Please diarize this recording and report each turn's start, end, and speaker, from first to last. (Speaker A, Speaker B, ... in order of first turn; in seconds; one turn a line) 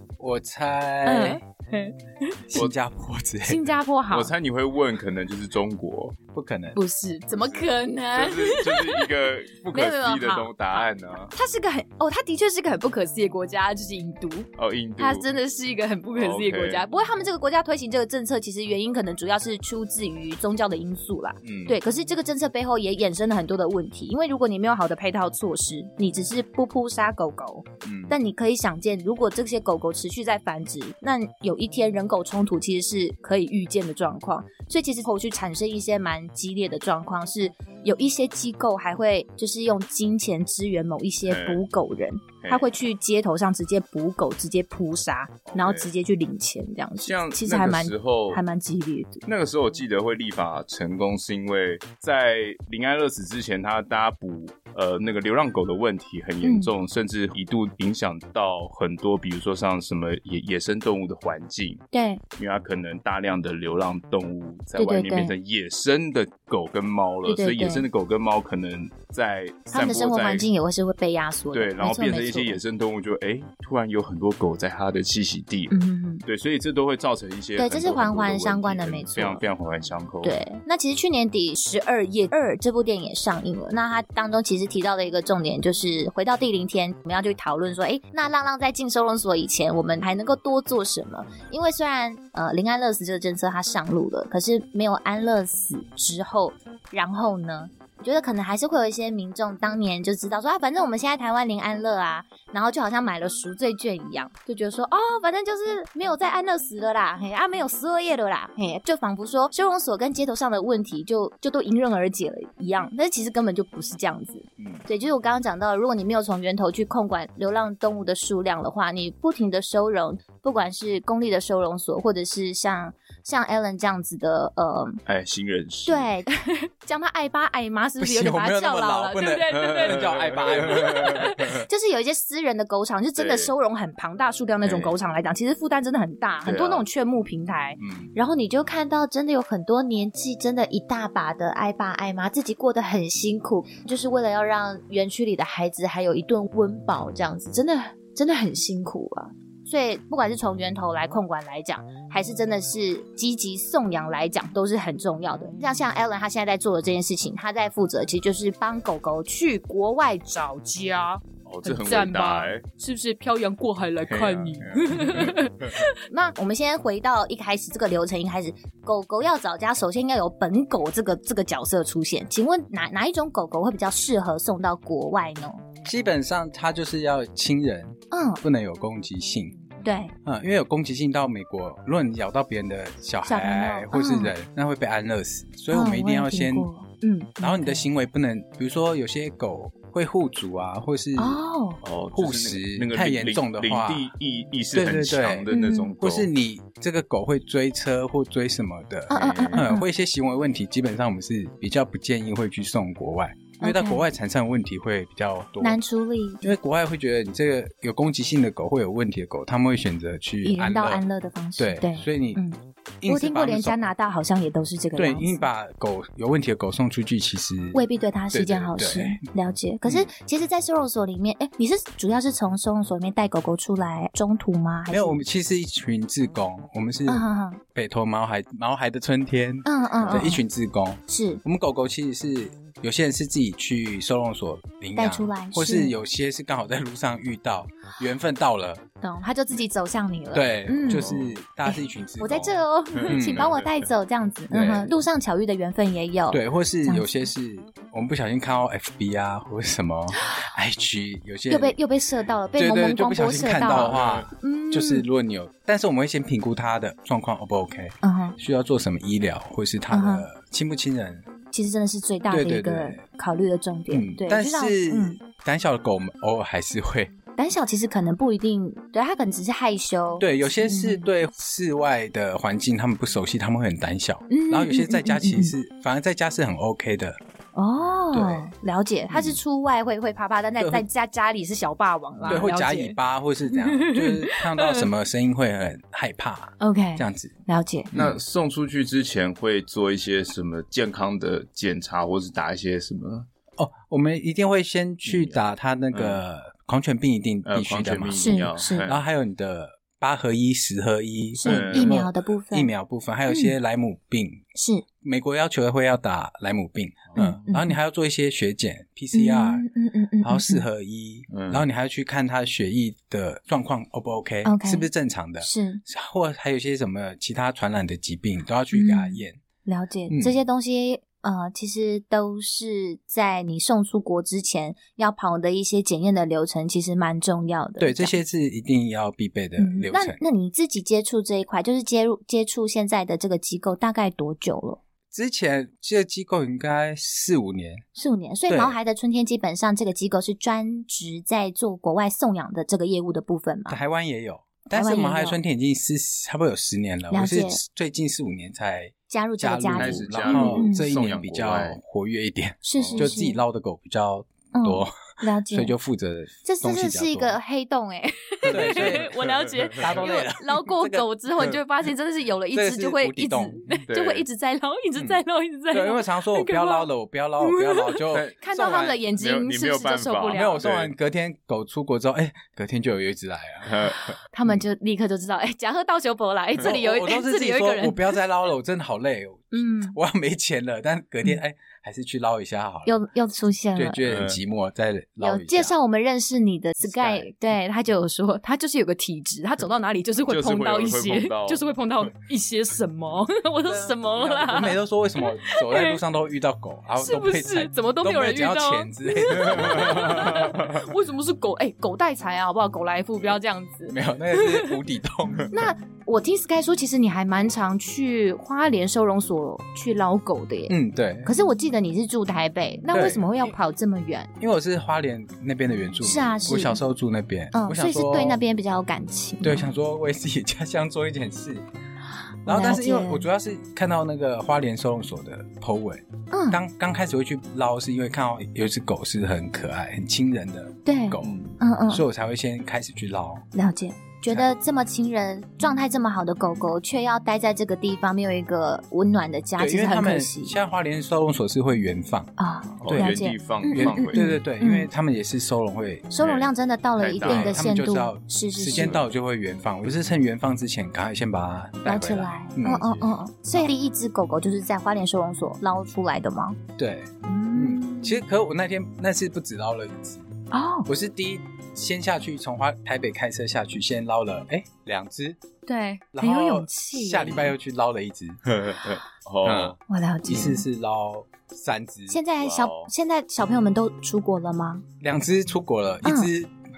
Speaker A: 0.2-1.4
Speaker B: 1.0-2.6
Speaker A: 2.5-3.6
Speaker B: 3.4-4.3
Speaker C: 4.1-6.2
Speaker A: 6.3-6.8
Speaker B: 6.7-9.1
Speaker C: 7.3-11.3
Speaker B: 9.7-49.2
Speaker C: 14.6-15.2
Speaker C: 16.1-16.8
Speaker C: 21.4-21.8
Speaker C: 41.3-41.6
Speaker C: 42.4-42.7
Speaker C: 45.5-45.9
Speaker C: 47.0-48.4
Speaker C: 49.2-61.8
Speaker B: 56.4-56.7
Speaker B: 61.9-62.2
Speaker C: 62.4-70.5
Speaker B: 64.8-65.3
Speaker B: 67.2-67.8
Speaker B: 69.7-72.6
Speaker C: 71.5-80.4
Speaker B: 75.7-76.2
Speaker B: 77.6-79.4
Speaker B: 80.2-125.0
Speaker C: 125.0-126.1
Speaker B: 125.8-175.6
Speaker A: 128.0-131.6
Speaker C: 129.5-131.5
Speaker C: 133.2-133.5
Speaker C: 134.6-134.9
Speaker C: 136.4-136.8
Speaker C: 137.8-138.1
Speaker C: 161.4-162.6
Speaker C: 164.1-165.7
Speaker A: 175.8-179.6
Speaker B: 178.1-178.4
Speaker B: 179.8-180.1
Speaker A: 180.2-186.7
Speaker B: 183.2-184.3
Speaker B: 185.7-187.8
Speaker A: 187.4-191.4
Speaker B: 191.2-191.8
Speaker C: 191.8-196.3
Speaker A: 192.1-194.1
Speaker A: 194.7-195.5
Speaker B: 195.5-195.9
Speaker A: 196.0-205.8
Speaker B: 199.1-199.8
Speaker C: 199.1-199.7
Speaker B: 203.6-204.0
Speaker B: 205.6-206.5
Speaker A: 206.4-211.0
Speaker B: 210.4-215.4
Speaker A: 211.6-212.4
Speaker A: 213.0-213.8
Speaker A: 214.9-217.8
Speaker B: 217.7-225.2
Speaker A: 218.3-219.2
Speaker A: 224.9-238.8
Speaker B: 227.1-227.6
Speaker B: 229.6-230.4
Speaker B: 231.1-231.4
Speaker B: 234.9-235.9
Speaker B: 239.0-241.1
Speaker A: 240.3-242.6
Speaker C: 240.9-241.3
Speaker B: 241.7-247.2
Speaker C: 242.9-243.8
Speaker A: 243.1-243.5
Speaker A: 244.5-244.9
Speaker A: 246.3-251.8
Speaker B: 250.2-250.4
Speaker B: 251.5-255.1
Speaker A: 252.6-261.2
Speaker C: 253.6-254.3
Speaker B: 258.0-258.4
Speaker B: 259.9-260.2
Speaker B: 261.5-265.2
Speaker A: 262.3-263.0
Speaker A: 263.9-267.1
Speaker B: 267.4-271.1
Speaker A: 270.2-277.2
Speaker B: 274.3-275.5
Speaker B: 277.6-282.9
Speaker A: 278.1-278.5
Speaker A: 279.1-279.4
Speaker A: 280.6-280.8
Speaker A: 282.2-287.3
Speaker B: 283.5-284.9
Speaker B: 286.6-287.9
Speaker A: 287.9-288.2
Speaker C: 287.9-293.3
Speaker A: 293.6-304.4
Speaker C: 295.1-295.4
Speaker C: 295.9-296.2
Speaker C: 297.4-299.0
Speaker B: 298.1-298.9
Speaker B: 301.4-302.7
Speaker C: 301.4-302.0
Speaker B: 303.3-303.5
Speaker B: 304.5-304.8
Speaker A: 305.0-309.6
Speaker C: 307.1-307.4
Speaker B: 307.1-307.7
Speaker B: 309.1-310.6
Speaker A: 310.2-319.4
Speaker C: 311.3-311.6
Speaker B: 314.4-314.9
Speaker B: 315.4-315.8
Speaker B: 318.7-328.1
Speaker A: 320.1-320.4
Speaker A: 327.8-330.2
Speaker B: 329.6-334.8
Speaker A: 335.1-337.8
Speaker B: 337.9-343.8
Speaker A: 338.5-338.8
Speaker A: 343.7-357.4
Speaker B: 344.7-345.4
Speaker B: 347.1-347.6
Speaker B: 349.1-350.9
Speaker C: 349.7-351.8
Speaker B: 352.6-353.4
Speaker C: 352.8-353.1
Speaker B: 354.5-355.7
Speaker B: 356.4-366.9
Speaker A: 358.5-359.2
Speaker C: 358.5-360.0
Speaker A: 359.8-361.5
Speaker A: 362.5-363.8
Speaker C: 363.9-364.2
Speaker A: 365.7-369.0
Speaker B: 367.4-370.6
Speaker C: 368.1-368.4
Speaker C: 369.1-370.9
Speaker A: 370.3-373.8
Speaker C: 373.6-374.2
Speaker B: 374.3-378.1
Speaker A: 376.6-383.0
Speaker B: 379.5-379.9
Speaker B: 382.9-384.0
Speaker A: 383.8-385.7
Speaker C: 384.1-384.4
Speaker B: 385.2-396.0
Speaker A: 386.8-387.3
Speaker C: 390.3-391.7
Speaker A: 393.7-400.5
Speaker B: 397.0-404.8
Speaker C: 399.4-400.7
Speaker A: 403.9-405.5
Speaker B: 405.5-414.3
Speaker A: 410.7-411.3
Speaker A: 412.9-413.3
Speaker A: 414.4-418.4
Speaker B: 416.0-416.8
Speaker B: 417.5-419.7
Speaker A: 419.4-421.6
Speaker B: 422.4-423.2
Speaker A: 422.4-433.4
Speaker B: 426.3-426.6
Speaker B: 430.9-432.0
Speaker C: 431.2-431.5
Speaker B: 433.5-440.6
Speaker A: 439.6-446.1
Speaker B: 442.4-444.9
Speaker C: 442.8-444.2
Speaker B: 446.1-449.0
Speaker C: 446.2-447.6
Speaker A: 447.2-453.0
Speaker B: 451.8-456.6
Speaker A: 456.8-460.2
Speaker B: 457.2-458.2
Speaker B: 460.5-460.9
Speaker A: 460.9-465.4
Speaker B: 465.6-467.5
Speaker A: 466.1-468.4
Speaker C: 468.4-469.8
Speaker A: 469.4-472.2
Speaker B: 469.9-470.6
Speaker B: 472.1-474.8
Speaker C: 472.4-472.9
Speaker A: 475.0-476.5
Speaker B: 476.0-476.3